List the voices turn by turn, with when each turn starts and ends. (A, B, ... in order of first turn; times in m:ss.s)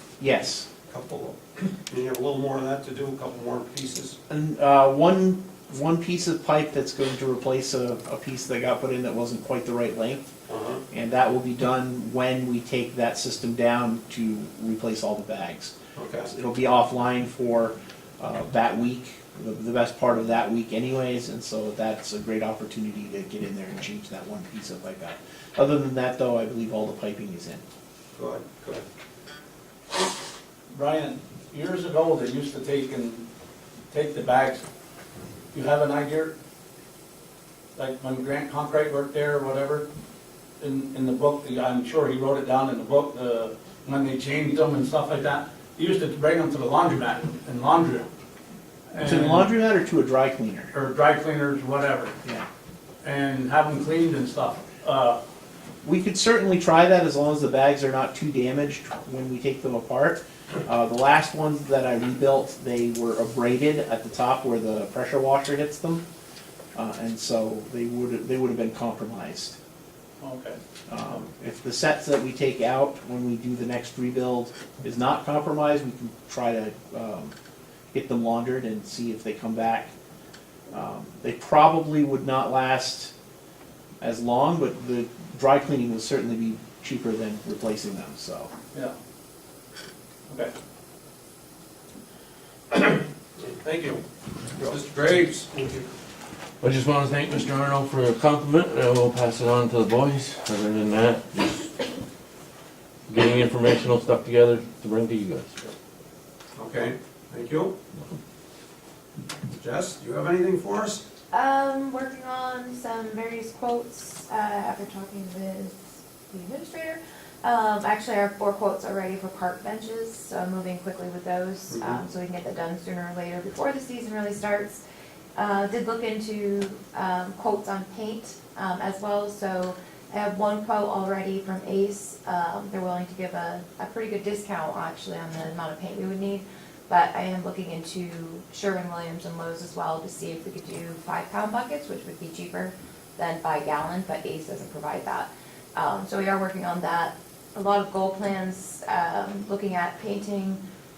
0:00.2-0:00.7 A
0:00.9-0:04.2 B
0:04.3-0:10.3 A
0:10.5-0:10.8 B
0:10.9-0:15.7 A
0:15.9-0:16.3 B
0:16.2-0:27.6 A
0:28.1-0:28.8 B
0:30.7-0:33.2 C
0:33.9-0:34.6 C
0:35.5-0:36.3 C
0:37.8-0:39.9 C
0:40.6-0:48.1 C
0:48.9-0:49.5 C
0:49.0-0:50.7 A
0:50.7-0:52.1 C
0:53.0-0:55.2 C
0:55.8-1:06.0 A
1:06.7-1:09.6 A
1:10.2-1:10.6 C
1:10.9-1:17.3 A
1:17.9-1:19.9 A
1:20.7-1:23.1 A
1:24.0-1:28.5 A
1:32.7-1:34.0 B
1:34.6-1:35.9 B
1:36.6-1:41.7 D
1:43.1-1:45.5 D
1:46.6-1:47.8 B
1:49.5-1:51.0 B
1:51.3-2:04.8 E
2:01.7-2:02.0 B
2:05.4-2:30.6 E